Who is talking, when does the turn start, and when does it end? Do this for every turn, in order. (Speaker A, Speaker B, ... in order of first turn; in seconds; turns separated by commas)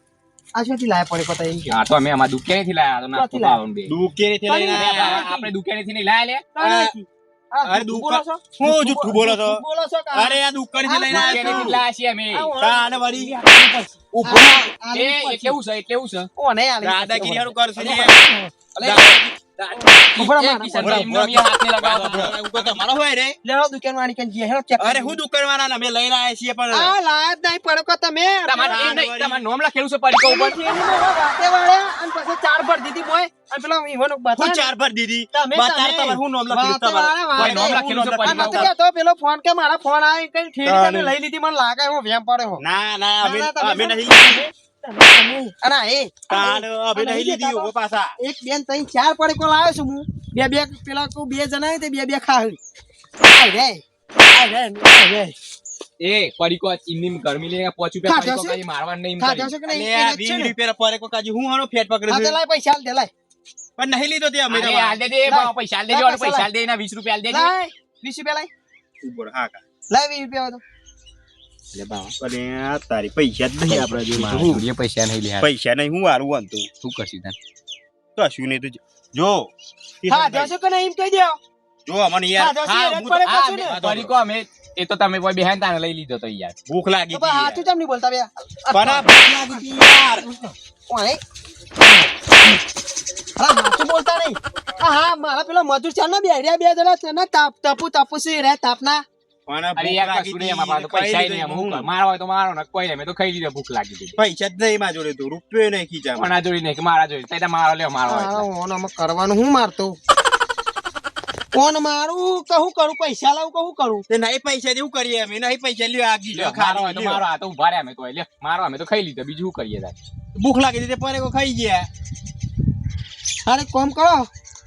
Speaker A: 0.5-1.8, Speaker B: 1.7-3.9, Speaker A: 3.1-3.6, Speaker C: 3.9-5.3, Speaker A: 4.5-5.5, Speaker B: 4.7-6.5, Speaker A: 6.5-11.8, Speaker C: 6.6-6.9, Speaker C: 7.6-9.6, Speaker C: 10.1-11.8, Speaker B: 11.1-12.5, Speaker A: 12.3-15.6, Speaker C: 12.6-13.4, Speaker C: 14.2-14.7, Speaker B: 14.9-16.3, Speaker A: 16.4-18.5, Speaker C: 16.8-18.2, Speaker B: 18.8-22.8, Speaker C: 18.8-19.4, Speaker A: 19.7-21.2, Speaker C: 20.8-23.4, Speaker A: 23.4-25.2, Speaker C: 24.8-26.9, Speaker A: 26.7-29.1, Speaker B: 28.5-30.6, Speaker C: 28.7-29.4, Speaker A: 30.1-34.7, Speaker C: 34.4-38.7, Speaker A: 35.3-42.6, Speaker B: 37.4-38.7, Speaker C: 40.6-41.1, Speaker C: 42.6-44.4, Speaker A: 43.2-52.6, Speaker C: 46.3-48.1, Speaker A: 53.2-55.3, Speaker B: 56.0-59.5, Speaker A: 58.0-58.6, Speaker A: 59.2-60.5, Speaker C: 59.6-62.4, Speaker A: 62.1-63.1, Speaker C: 63.8-65.0, Speaker B: 64.5-67.5, Speaker A: 65.2-66.5, Speaker A: 67.3-68.5, Speaker C: 69.0-69.6, Speaker A: 69.9-70.6, Speaker B: 71.7-72.1, Speaker C: 72.2-74.7, Speaker B: 73.7-75.5, Speaker C: 75.4-76.7, Speaker B: 76.8-77.3, Speaker C: 78.2-79.5, Speaker C: 80.0-80.5, Speaker A: 80.1-81.4, Speaker C: 81.8-84.1, Speaker A: 82.4-83.8, Speaker B: 82.7-86.6, Speaker C: 86.7-87.6, Speaker A: 87.1-89.6, Speaker C: 88.7-90.3, Speaker A: 90.9-91.2, Speaker A: 91.8-92.6, Speaker A: 93.4-99.0, Speaker C: 99.5-101.9, Speaker B: 99.8-104.2, Speaker C: 104.2-106.3, Speaker B: 106.1-108.5, Speaker A: 108.1-110.0, Speaker A: 111.5-114.0, Speaker C: 114.1-117.2, Speaker B: 116.3-119.9, Speaker C: 120.3-121.9, Speaker A: 123.5-124.3